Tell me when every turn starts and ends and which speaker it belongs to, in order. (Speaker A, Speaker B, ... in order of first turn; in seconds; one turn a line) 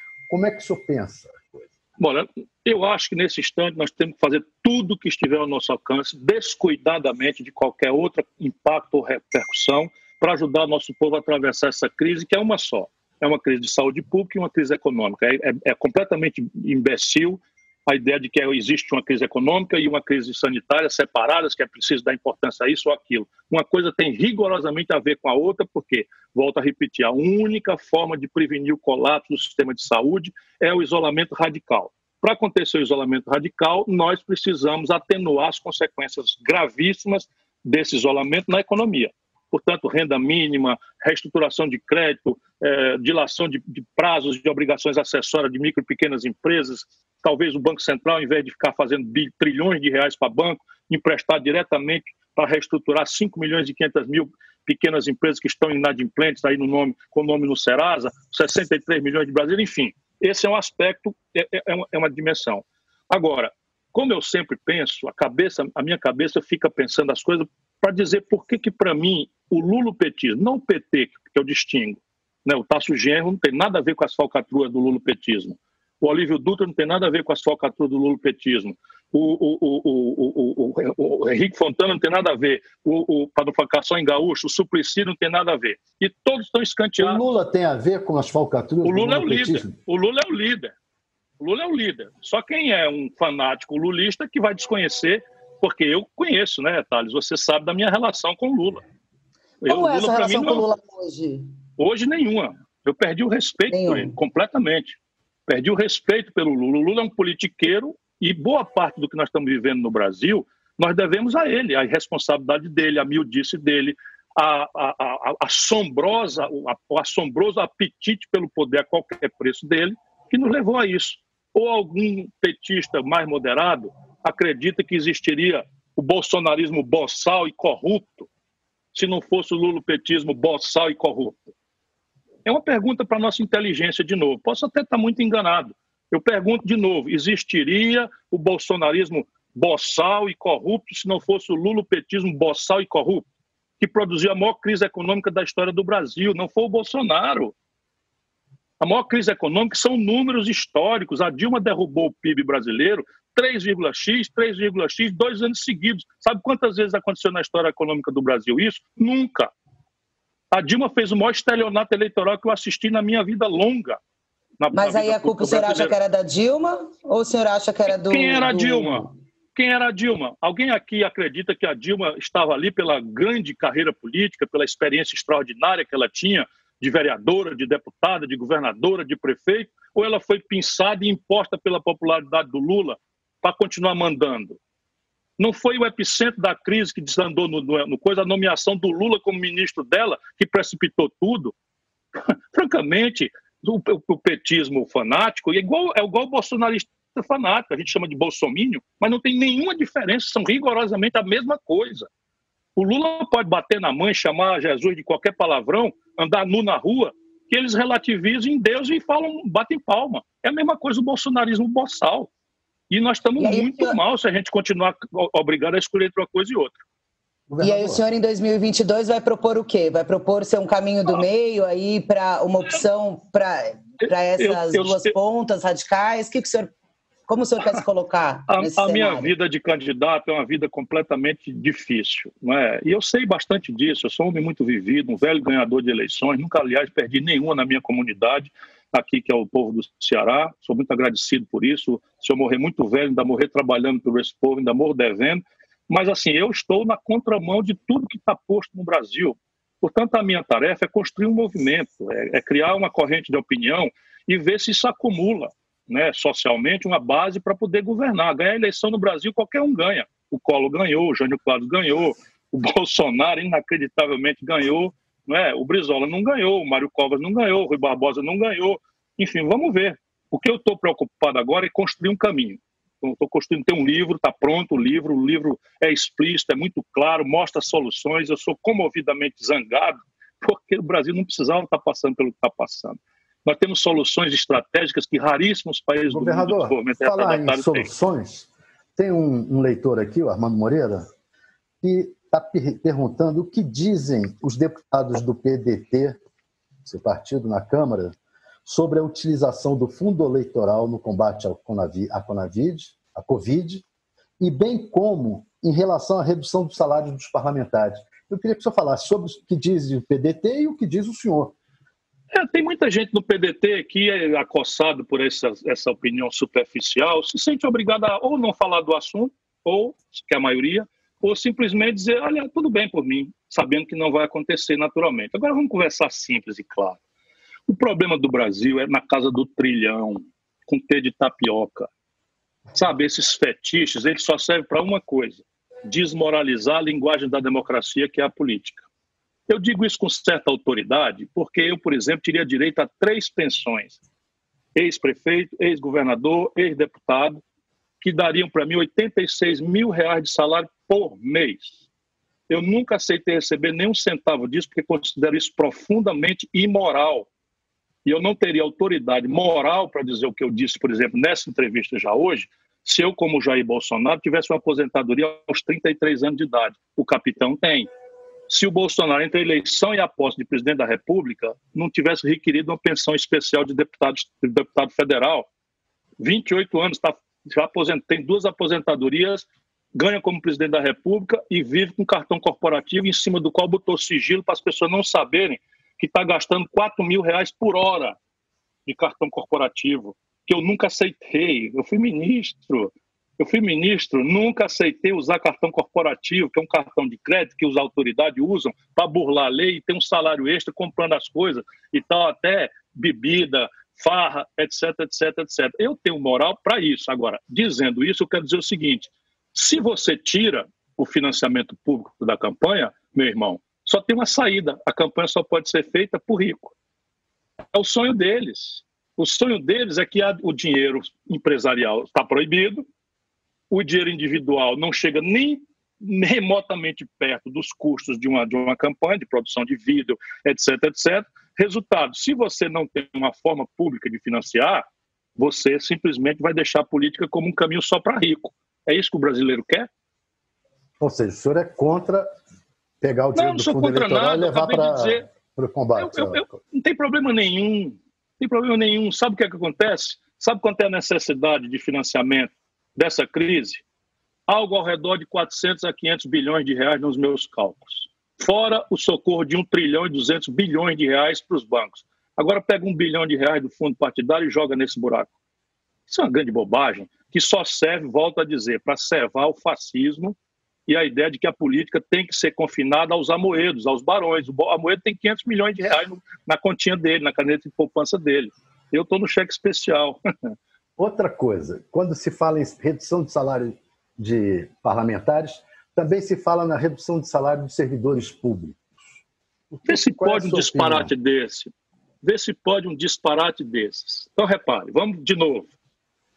Speaker A: 0.3-1.7
Speaker B: 2.0-87.2
Speaker A: 87.0-89.8
Speaker B: 88.8-90.7
Speaker B: 91.4-98.8
Speaker B: 99.6-100.7
Speaker C: 99.6-101.5
Speaker B: 101.8-105.0
Speaker C: 103.7-104.1
Speaker B: 105.5-128.3
Speaker B: 128.9-131.5
Speaker B: 132.4-143.3
Speaker B: 143.8-147.5
Speaker B: 148.8-159.5
Speaker B: 160.5-164.0
Speaker B: 164.6-165.9
Speaker C: 164.7-169.1
Speaker B: 167.9-184.6
Speaker B: 185.4-191.5
Speaker B: 192.5-202.1
Speaker B: 202.8-212.3
Speaker B: 212.9-216.8
Speaker C: 213.4-214.0
Speaker A: 217.5-218.0
Speaker C: 217.6-226.7
Speaker B: 224.0-225.1
Speaker C: 227.3-229.3
Speaker B: 228.5-287.9
Speaker A: 286.1-291.1
Speaker A: 291.8-296.2
Speaker A: 296.9-303.9
Speaker A: 304.4-311.5
Speaker B: 312.3-327.0
Speaker B: 327.7-331.9
Speaker B: 332.7-338.9
Speaker B: 339.5-344.0
Speaker B: 344.8-347.4
Speaker B: 348.0-351.8
Speaker B: 352.5-357.3
Speaker B: 358.1-367.9
Speaker B: 368.5-375.5
Speaker B: 376.2-388.2
Speaker B: 388.9-416.7
Speaker B: 417.7-422.8
Speaker B: 423.7-434.8
Speaker B: 435.4-439.9
Speaker A: 441.0-442.3
Speaker A: 443.0-446.6
Speaker B: 443.4-445.2
Speaker B: 446.0-453.8
Speaker B: 454.5-465.3
Speaker B: 466.1-470.4
Speaker B: 470.9-480.2
Speaker A: 481.0-489.0
Speaker A: 489.7-491.1
Speaker B: 489.9-491.7
Speaker B: 492.2-495.7